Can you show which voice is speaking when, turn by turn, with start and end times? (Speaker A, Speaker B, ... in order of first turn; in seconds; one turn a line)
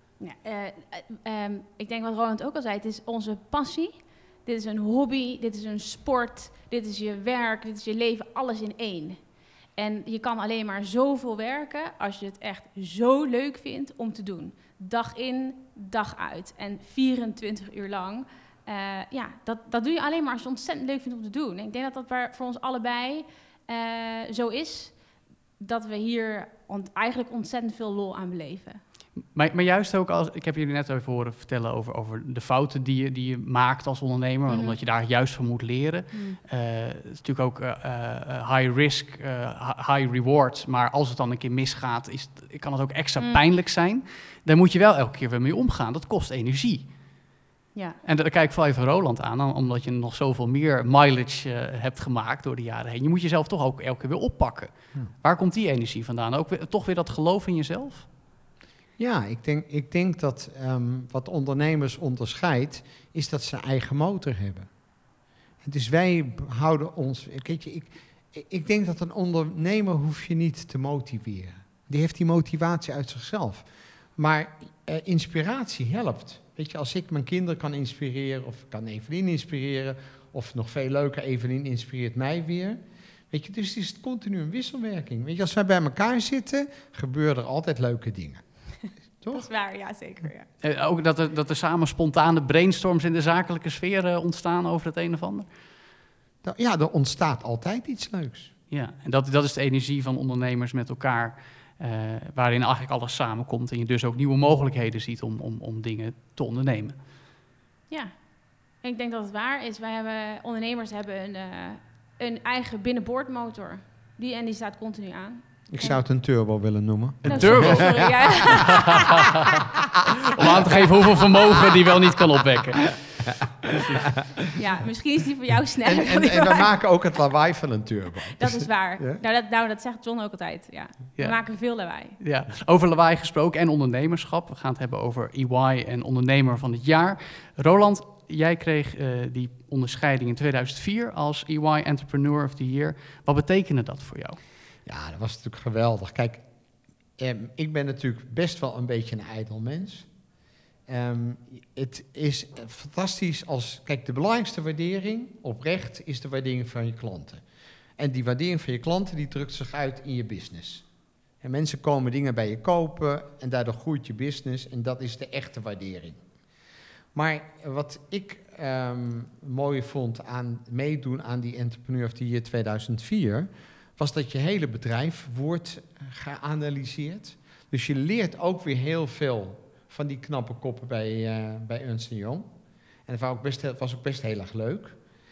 Speaker A: 0.2-9.2
Speaker A: 9.8-25.0
Speaker A: 25.6-28.8
Speaker B: 29.3-46.9
Speaker A: 34.5-34.8
Speaker A: 36.1-36.4
Speaker B: 48.0-58.1
Speaker C: 59.0-64.7
Speaker C: 65.6-82.8
Speaker C: 83.3-88.5
Speaker C: 89.2-89.5
Speaker A: 89.3-90.5
Speaker B: 90.6-95.5
Speaker C: 96.4-98.5
Speaker B: 98.7-107.0
Speaker A: 107.9-116.0
Speaker C: 115.7-118.4
Speaker B: 117.2-119.3
Speaker A: 117.3-119.3
Speaker B: 120.3-123.3
Speaker C: 123.2-124.2
Speaker A: 124.5-126.7
Speaker C: 125.8-129.2
Speaker A: 128.4-132.2
Speaker B: 132.2-144.4
Speaker C: 144.9-146.4
Speaker C: 147.2-150.1
Speaker C: 150.9-157.4
Speaker C: 158.0-160.8
Speaker C: 161.4-166.2
Speaker C: 167.1-182.5
Speaker C: 183.1-185.0